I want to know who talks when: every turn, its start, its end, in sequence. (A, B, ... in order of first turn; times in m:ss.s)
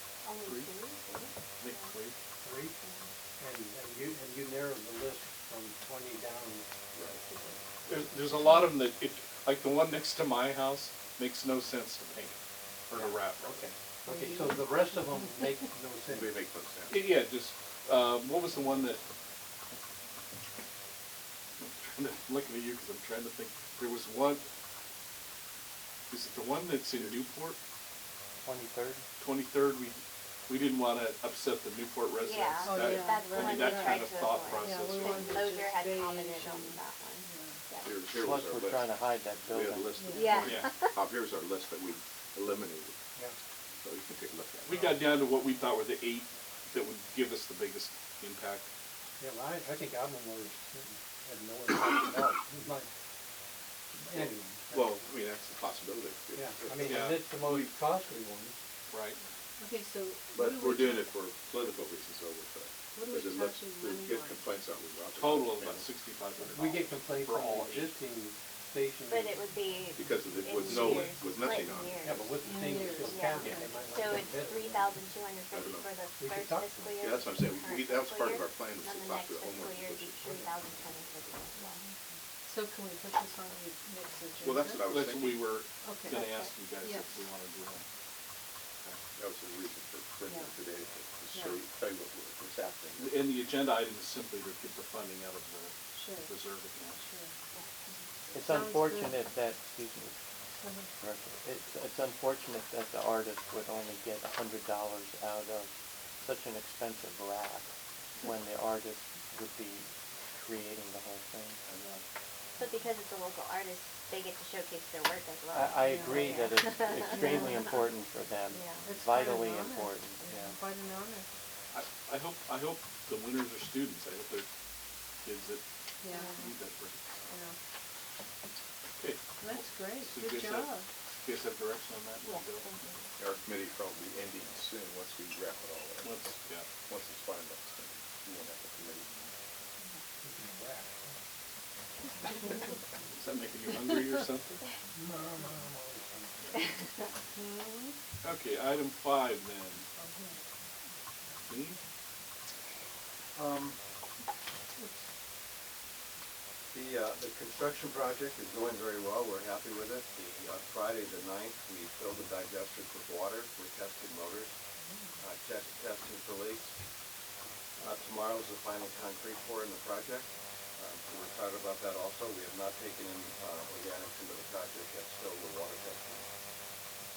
0:00.2-0:01.9 A
0:00.4-0:00.7 B
0:01.6-0:02.2 B
0:02.4-0:02.8 C
0:02.8-0:03.1 A
0:03.4-0:06.6 C
0:06.9-0:07.2 D
0:07.2-0:07.6 A
0:07.9-0:13.7 B
0:12.9-0:16.4 C
0:14.0-0:15.3 E
0:16.1-0:17.0 D
0:16.9-0:19.0 B
0:21.6-0:24.4 B
0:26.1-0:27.6 B
0:28.4-0:29.0 F
0:29.2-0:35.4 B
0:32.2-0:37.9 A
0:32.6-0:37.6 E
0:37.8-0:43.0 D
0:38.1-0:40.2 F
0:40.0-0:40.4 E
0:40.1-0:41.0 A
0:40.4-0:40.7 B
0:43.8-0:45.0 D
0:44.7-0:48.7 B
0:49.2-0:52.9 C
0:54.0-0:55.0 C
0:54.2-0:57.0 D
0:56.3-0:58.6 C
0:56.8-0:57.7 B
0:58.9-0:59.2 B
0:59.6-1:01.1 E
1:00.3-1:05.9 D
1:02.9-1:04.5 E
1:05.2-1:07.9 B
1:06.5-1:09.4 C
1:09.1-1:21.8 A
1:09.9-1:12.1 D
1:12.0-1:15.0 C
1:12.4-1:14.1 E
1:15.5-1:16.0 D
1:16.2-1:17.0 C
1:17.0-1:20.3 D
1:20.2-1:20.5 C
1:21.6-1:24.9 E
1:24.4-1:25.6 D
1:24.8-1:27.8 B
1:25.8-1:27.1 E
1:29.2-1:33.3 D
1:30.3-1:30.5 E
1:31.3-1:31.6 E
1:33.0-1:37.0 B
1:35.9-1:36.3 E
1:37.0-1:37.3 E
1:37.5-1:38.0 A
1:38.3-1:40.2 F
1:38.4-1:39.2 E
1:40.6-1:40.9 E
1:41.0-1:51.6 F
1:51.7-1:52.0 B
1:52.6-1:57.6 A
1:55.5-2:00.6 F
1:55.8-1:56.5 E
1:57.1-1:57.7 E
1:58.5-1:58.9 A
1:58.8-2:01.3 E
2:01.7-2:04.5 B
2:05.2-2:05.6 B
2:06.0-2:06.5 E
2:06.1-2:06.4 A
2:06.4-2:07.2 B
2:07.3-2:07.6 E
2:09.0-2:12.7 B
2:09.4-2:10.9 E
2:12.2-2:13.1 A
2:13.2-2:16.2 D
2:16.0-2:16.7 B
2:16.8-2:19.3 D
2:20.2-2:21.2 C
2:23.1-2:24.7 B
2:24.9-2:26.5 C
2:27.4-2:27.9 E
2:28.2-2:29.8 B
2:30.0-2:30.4 E
2:31.5-2:31.8 B
2:33.4-2:33.8 G
2:34.8-2:35.0 E
2:36.7-2:44.5 G
2:44.8-2:45.1 E
2:45.2-2:46.7 G
2:47.8-2:56.2 G